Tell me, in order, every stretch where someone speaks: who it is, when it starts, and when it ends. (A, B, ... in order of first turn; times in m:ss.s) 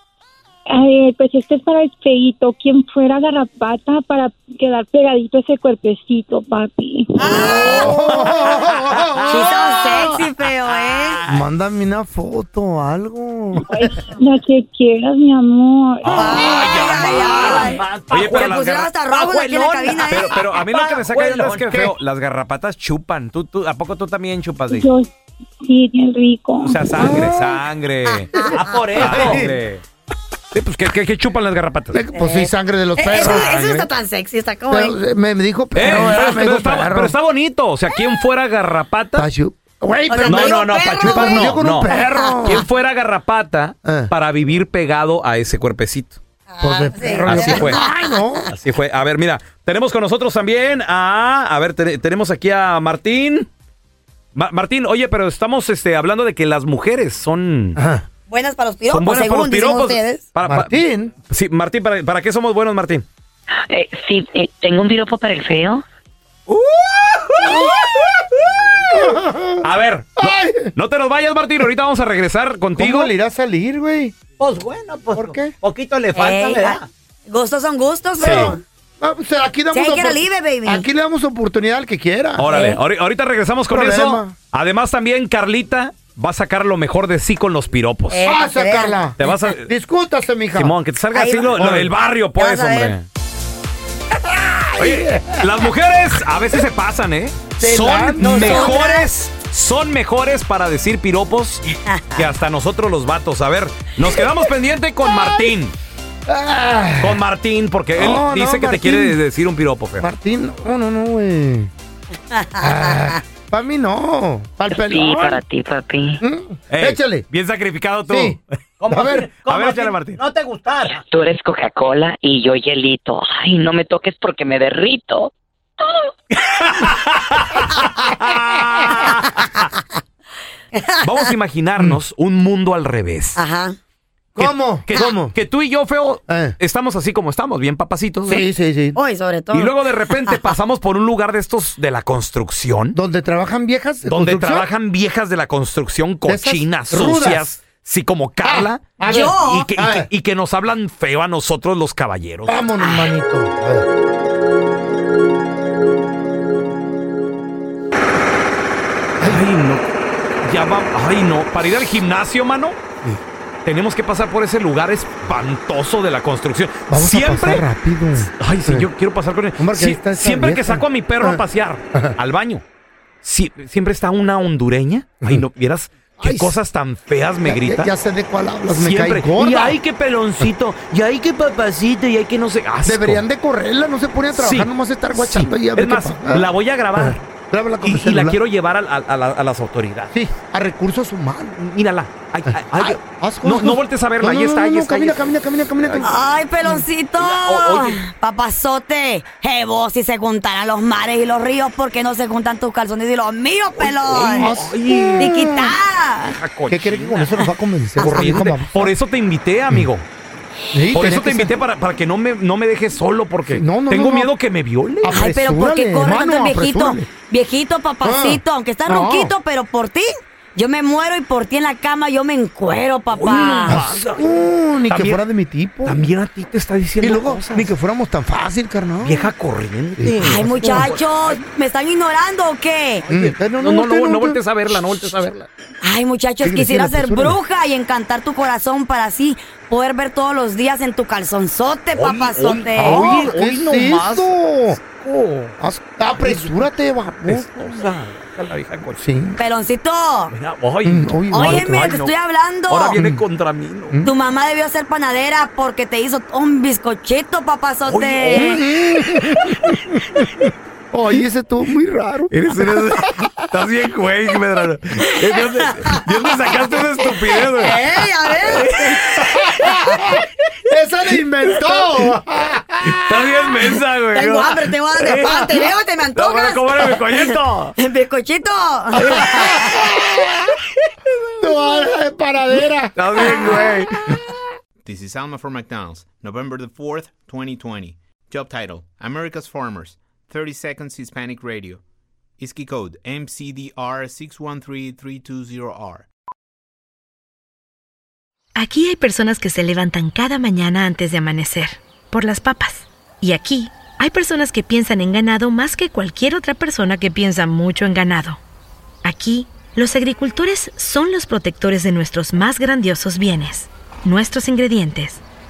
0:00.7-0:07.6 A
0:07.2-0:08.2 B
0:07.3-0:09.5 C
0:07.4-0:11.4 D
0:09.3-0:11.2 B
0:11.3-0:13.9 C
0:13.9-0:16.6 A
0:16.0-0:24.9 D
0:16.2-0:20.4 B
0:16.4-0:18.7 E
0:20.3-0:21.5 E
0:24.7-0:25.1 A
0:25.6-0:27.4 A
0:26.6-0:28.3 D
0:27.0-0:27.5 C
0:28.1-0:28.5 B
0:28.4-0:29.5 C
0:28.6-0:29.5 E
0:28.8-0:29.8 D
0:30.5-0:32.0 D
0:31.9-0:33.9 C
0:32.1-0:34.9 B
0:34.7-0:37.1 C
0:35.7-0:39.3 D
0:39.1-0:42.6 C
0:40.1-0:42.4 B
0:40.2-0:46.2 D
0:43.8-0:44.1 C
0:46.5-0:48.2 B
0:46.6-0:48.5 C
0:47.0-0:47.9 D
0:48.5-0:53.5 D
0:54.3-0:57.8 D
0:57.8-0:58.0 C
0:58.3-1:00.2 B
0:58.9-1:03.0 D
1:00.4-1:01.1 C
1:03.7-1:05.8 F
1:06.5-1:07.6 D
1:07.4-1:07.7 C
1:08.9-1:09.7 C
1:09.6-1:13.1 D
1:10.2-1:10.7 C
1:12.8-1:14.2 C
1:14.4-1:16.9 E
1:15.1-1:15.5 C
1:16.1-1:18.6 B
1:18.2-1:18.6 D
1:18.2-1:22.5 C
1:19.7-1:20.8 B
1:22.4-1:28.3 D
1:22.5-1:22.8 B
1:23.7-1:24.4 C
1:28.1-1:28.9 B
1:28.2-1:30.8 C
1:29.2-1:29.7 D
1:30.5-1:33.1 D
1:31.1-1:31.5 B
1:31.5-1:31.9 C
1:32.4-1:32.9 B
1:34.3-1:35.7 C
1:34.8-1:45.7 D
1:37.6-1:38.8 C
1:38.3-1:39.1 B
1:41.8-1:42.2 B
1:46.3-1:47.2 C
1:47.0-1:50.1 D
1:47.9-1:49.2 C
1:50.0-1:51.7 C
1:52.6-1:55.4 C
1:55.0-1:56.1 F
1:56.2-1:57.3 C
1:56.7-1:58.4 D
1:58.1-1:58.4 C
1:58.8-2:01.0 E
1:58.9-1:59.3 C
1:59.0-2:00.2 D
2:01.1-2:05.3 F
2:06.4-2:09.7 D
2:10.7-2:11.0 B
2:11.0-2:13.4 D
2:13.4-2:13.8 B
2:14.4-2:15.3 C
2:14.4-2:18.5 D
2:16.3-2:16.6 C
2:18.2-2:19.0 C
2:19.0-2:20.5 B
2:19.5-2:23.0 D
2:22.9-2:24.7 C
2:24.0-2:32.6 D
2:26.2-2:27.5 C
2:28.4-2:30.1 C
2:29.0-2:29.7 B
2:32.4-2:33.9 C
2:39.2-2:39.4 C
2:39.2-2:39.8 D
2:40.4-2:42.8 D
2:43.6-2:47.6 D
2:46.9-2:48.9 C
2:48.2-2:52.6 D
2:49.6-2:52.1 C
2:53.2-2:57.9 D
2:56.2-2:56.6 C
2:57.4-2:59.8 C
2:58.7-3:03.2 D
3:02.8-3:08.4 C
3:04.3-3:07.2 D
3:07.8-3:10.1 D
3:10.1-3:11.6 C
3:11.6-3:16.1 D
3:12.5-3:16.2 C
3:16.0-3:24.5 B
3:16.6-3:18.0 D
3:23.7-3:25.4 D
3:24.2-3:25.8 C
3:25.2-3:26.3 B
3:26.2-3:30.0 D
3:26.7-3:28.9 C
3:30.7-3:31.6 C
3:30.9-3:35.3 D
3:33.5-3:34.3 C
3:35.0-3:37.1 C
3:35.1-3:43.8 B
3:38.0-3:39.3 C
3:43.1-3:45.2 D
3:43.6-3:46.0 C
3:45.8-3:47.7 D
3:47.0-3:49.3 C
3:49.0-3:51.4 D
3:50.0-3:51.0 C
3:50.2-3:53.0 B
3:53.0-3:55.5 D
3:53.1-3:54.4 C
3:55.8-4:03.0 B
3:56.4-3:57.4 C
4:01.9-4:05.6 D
4:02.7-4:04.8 C
4:05.6-4:07.7 C
4:06.2-4:06.7 D
4:07.2-4:09.0 D
4:09.0-4:09.4 C
4:09.4-4:10.3 B
4:10.3-4:12.2 D
4:10.8-4:11.7 C
4:11.3-4:12.9 B
4:12.7-4:14.1 D
4:12.9-4:13.2 C
4:14.0-4:18.5 B
4:17.8-4:20.3 D
4:18.2-4:23.3 C
4:22.3-4:29.8 D
4:27.5-4:28.7 B
4:28.7-4:33.2 C
4:31.8-4:32.1 D
4:32.8-4:37.7 D
4:34.1-4:39.8 B
4:38.9-4:40.4 C
4:39.0-4:39.5 D
4:41.4-4:44.2 C
4:42.9-4:44.2 D
4:44.8-4:51.8 G
4:52.4-4:56.0 G
4:58.6-5:08.4 H
5:09.0-5:15.2 H